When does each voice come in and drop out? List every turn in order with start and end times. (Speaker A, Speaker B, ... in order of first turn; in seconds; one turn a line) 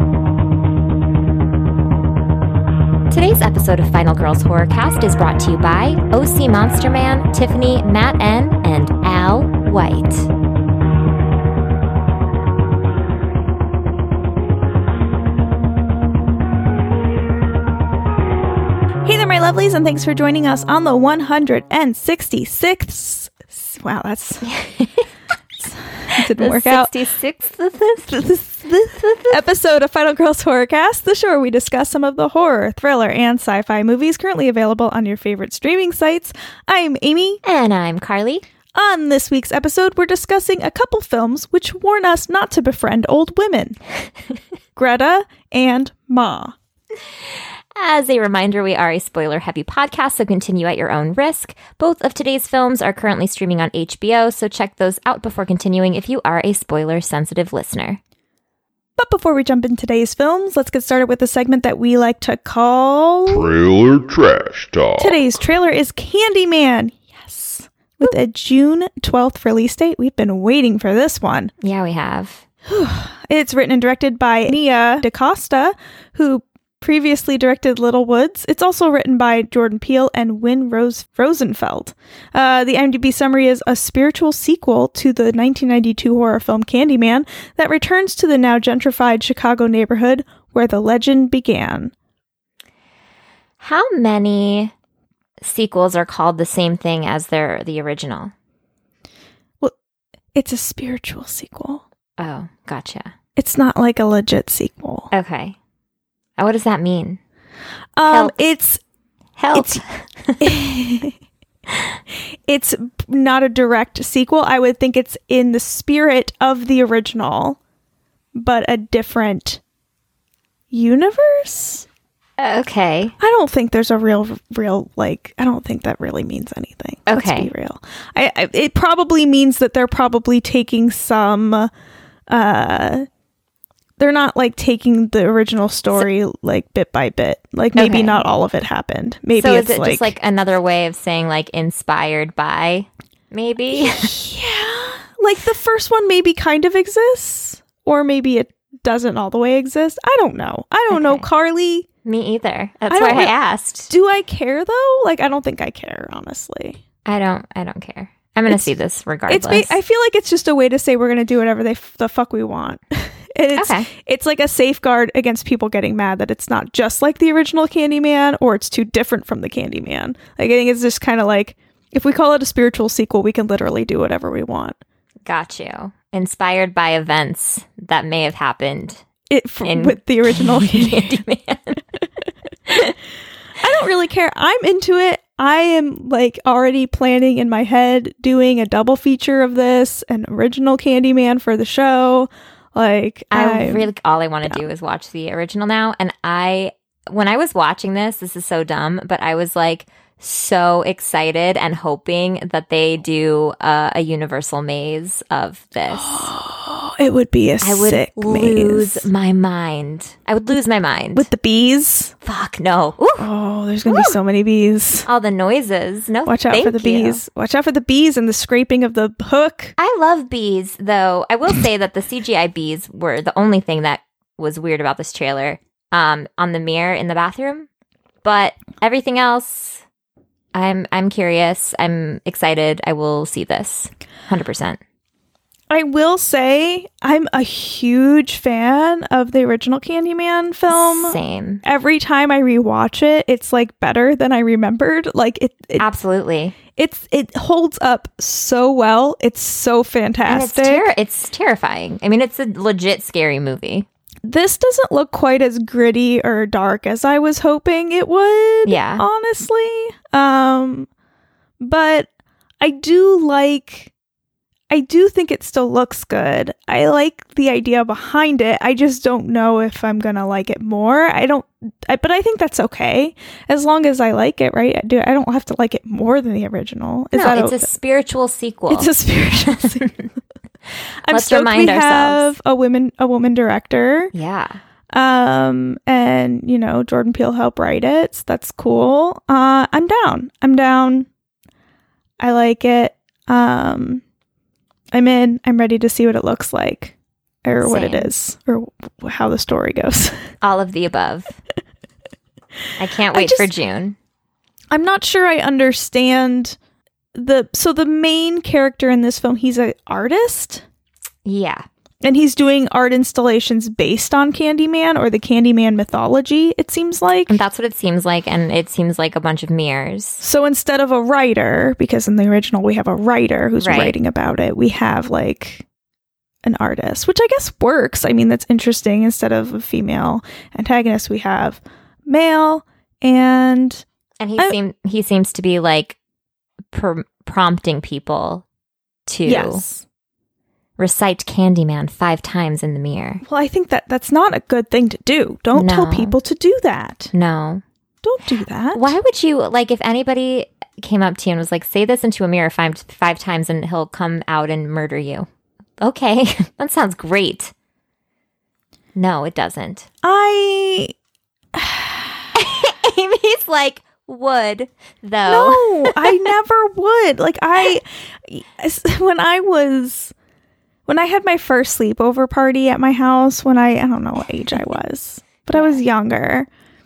Speaker A: 3.1-10.3
Speaker B: 19.0-24.4
Speaker A: 24.4-25.1
Speaker B: 25.6-26.9
Speaker A: 26.2-28.2
Speaker B: 28.1-37.4
Speaker A: 28.9-29.4
Speaker A: 37.4-38.4
Speaker B: 38.8-43.8
Speaker B: 44.8-46.5
Speaker A: 47.8-58.0
Speaker B: 59.0-63.5
Speaker C: 63.3-65.4
Speaker B: 65.0-71.5
Speaker A: 71.6-72.4
Speaker B: 72.7-91.9
Speaker A: 93.6-94.7
Speaker A: 95.4-98.3
Speaker B: 100.3-101.8
Speaker A: 102.2-103.1
Speaker B: 103.4-105.1
Speaker A: 105.1-105.6
Speaker A: 106.4-107.2
Speaker B: 108.0-108.8
Speaker A: 108.1-108.4
Speaker A: 109.4-110.6
Speaker B: 109.5-109.8
Speaker B: 110.4-111.2
Speaker B: 112.5-117.6
Speaker B: 118.3-119.6
Speaker B: 120.7-121.8
Speaker A: 122.4-123.1
Speaker B: 123.2-131.7
Speaker A: 127.1-127.5
Speaker B: 132.3-133.1
Speaker B: 134.0-140.1
Speaker A: 137.8-138.2
Speaker A: 139.3-144.1
Speaker B: 143.7-151.9
Speaker A: 150.9-151.3
Speaker A: 152.1-153.9
Speaker B: 152.9-153.3
Speaker B: 153.9-156.8
Speaker A: 157.1-159.8
Speaker B: 159.3-174.8
Speaker A: 163.6-163.9
Speaker A: 175.3-179.0
Speaker B: 179.3-181.2
Speaker A: 179.6-181.8
Speaker A: 182.7-182.9
Speaker B: 183.6-193.9
Speaker A: 193.3-206.3
Speaker B: 205.9-209.1
Speaker A: 207.6-211.3
Speaker B: 211.2-212.1
Speaker A: 212.2-213.3
Speaker B: 213.2-215.1
Speaker A: 213.9-214.2
Speaker A: 215.1-217.2
Speaker B: 216.3-219.8
Speaker A: 219.8-227.7
Speaker A: 228.2-229.8
Speaker A: 230.5-234.8
Speaker B: 235.7-245.8
Speaker A: 240.7-241.6
Speaker A: 245.8-246.6
Speaker B: 246.8-250.9
Speaker A: 250.2-253.9
Speaker B: 254.2-260.9
Speaker A: 258.6-259.1
Speaker B: 261.6-262.1
Speaker B: 262.6-263.9
Speaker B: 264.7-277.7
Speaker A: 277.1-278.9
Speaker B: 278.7-280.0
Speaker A: 279.5-279.9
Speaker B: 281.0-284.1
Speaker A: 281.1-282.3
Speaker A: 284.1-284.6
Speaker B: 284.9-291.1
Speaker B: 292.2-294.0
Speaker B: 294.9-300.2
Speaker A: 297.6-298.1
Speaker A: 300.4-301.4
Speaker A: 302.8-304.0
Speaker B: 303.1-303.5
Speaker B: 304.7-306.6
Speaker B: 307.1-310.6
Speaker A: 311.2-311.7
Speaker B: 312.0-317.4
Speaker A: 317.3-320.2
Speaker B: 320.2-325.6
Speaker A: 323.6-324.0
Speaker B: 326.4-333.8
Speaker A: 334.2-336.0
Speaker A: 336.7-338.4
Speaker A: 339.1-339.6
Speaker B: 339.2-339.8
Speaker A: 340.8-343.2
Speaker B: 343.2-347.1
Speaker A: 345.5-346.2
Speaker A: 347.1-347.6
Speaker B: 348.0-348.9
Speaker A: 348.7-355.3
Speaker A: 355.8-357.5
Speaker A: 359.0-359.9
Speaker B: 360.0-360.9
Speaker B: 361.5-362.3
Speaker A: 362.4-366.0
Speaker B: 365.3-370.1
Speaker B: 370.9-376.5
Speaker A: 375.5-375.8